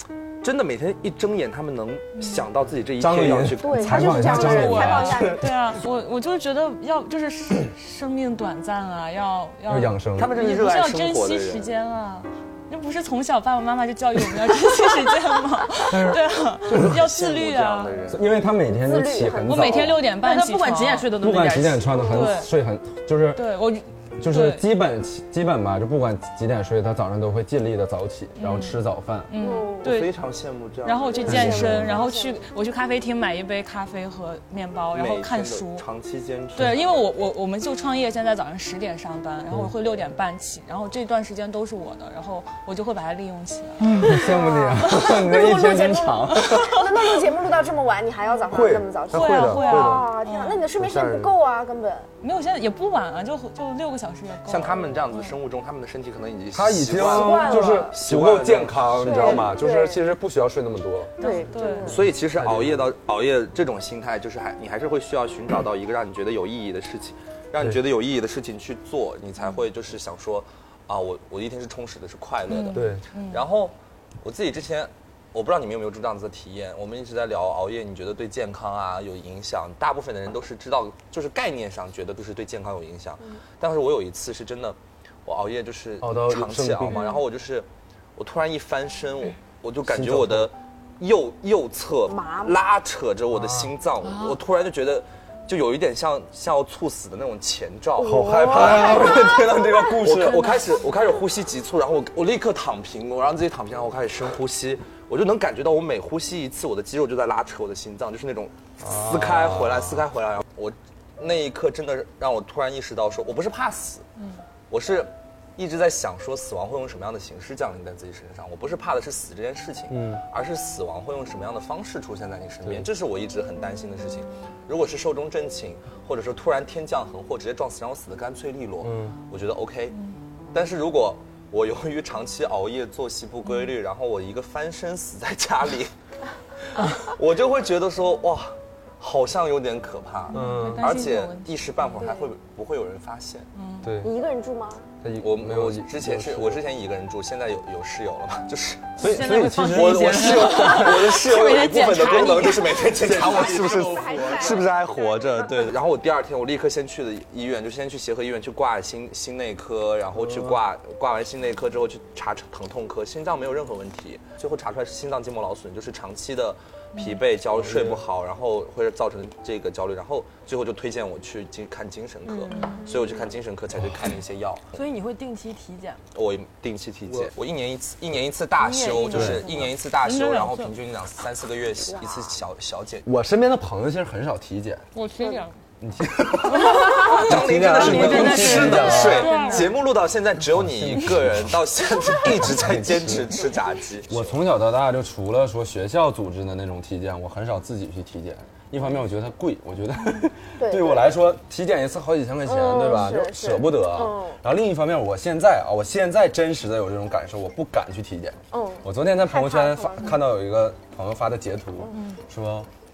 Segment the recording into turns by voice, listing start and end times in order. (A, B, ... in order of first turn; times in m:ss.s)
0:00.4-0:04.2 A
0:03.0-0:05.5 B
0:03.6-0:05.4 C
0:03.9-0:18.0 D
0:09.7-0:10.3 B
0:10.2-0:11.7 A
0:15.9-0:16.9 B
0:16.7-0:18.3 A
0:18.1-0:20.0 B
0:18.7-0:19.9 C
0:19.5-0:21.1 D
0:20.2-0:22.1 E
0:21.2-0:23.5 B
0:22.0-0:22.5 D
0:23.4-0:24.6 D
0:24.2-0:29.3 B
0:28.4-0:30.1 D
0:29.4-0:29.9 C
0:29.8-0:31.8 A
0:30.8-0:35.9 D
0:31.1-0:32.4 C
0:31.3-0:32.0 B
0:34.9-0:36.9 A
0:36.6-0:45.7 D
0:43.8-0:46.8 B
0:44.1-0:52.1 C
0:46.3-0:46.9 D
0:48.5-0:50.1 B
0:49.1-0:50.6 D
0:50.8-0:51.3 B
0:52.2-0:55.4 D
0:54.5-0:59.5 A
0:56.5-1:01.2 B
0:57.0-0:58.0 C
0:59.0-1:00.0 C
1:01.2-1:01.9 D
1:01.2-1:02.0 C
1:01.9-1:54.1 A
1:02.4-1:02.8 B
1:12.5-1:13.4 D
1:12.7-1:13.0 B
1:26.0-1:27.0 B
1:26.9-1:27.2 D
1:29.8-1:30.5 B
1:32.1-1:32.6 C
1:33.4-1:33.7 B
1:34.1-1:34.4 D
1:38.0-1:39.3 C
1:38.0-1:40.5 B
1:48.8-1:50.0 B
1:54.7-2:10.0 A
1:59.9-2:00.2 B
2:08.8-2:09.2 B
2:10.5-2:15.9 A
2:16.8-2:23.5 A
2:20.3-2:22.0 D
2:20.3-2:20.9 B
2:23.6-2:23.9 D
2:23.8-2:24.1 B
2:24.0-2:24.9 C
2:25.0-2:26.6 B
2:25.2-2:54.7 A
2:29.0-2:32.8 E
2:29.0-2:31.1 B
2:33.0-2:34.6 B
2:33.0-2:34.8 C
2:40.2-2:40.6 B
2:47.6-2:48.0 B
2:52.3-2:53.0 E
2:52.5-2:52.9 D
2:54.7-2:56.0 E
2:56.1-3:03.1 A
2:58.6-2:59.7 E
2:59.1-2:59.6 B
3:00.0-3:00.7 D
3:01.9-3:02.3 C
3:03.0-3:04.9 B
3:04.9-3:05.6 D
3:05.8-3:09.3 B
3:06.6-3:07.2 D
3:06.6-3:14.4 A
3:07.0-3:09.7 E
3:09.0-3:09.8 D
3:10.4-3:13.4 B
3:14.1-3:32.7 B
3:20.6-3:21.1 C
3:22.4-3:24.4 C
3:28.5-3:30.2 C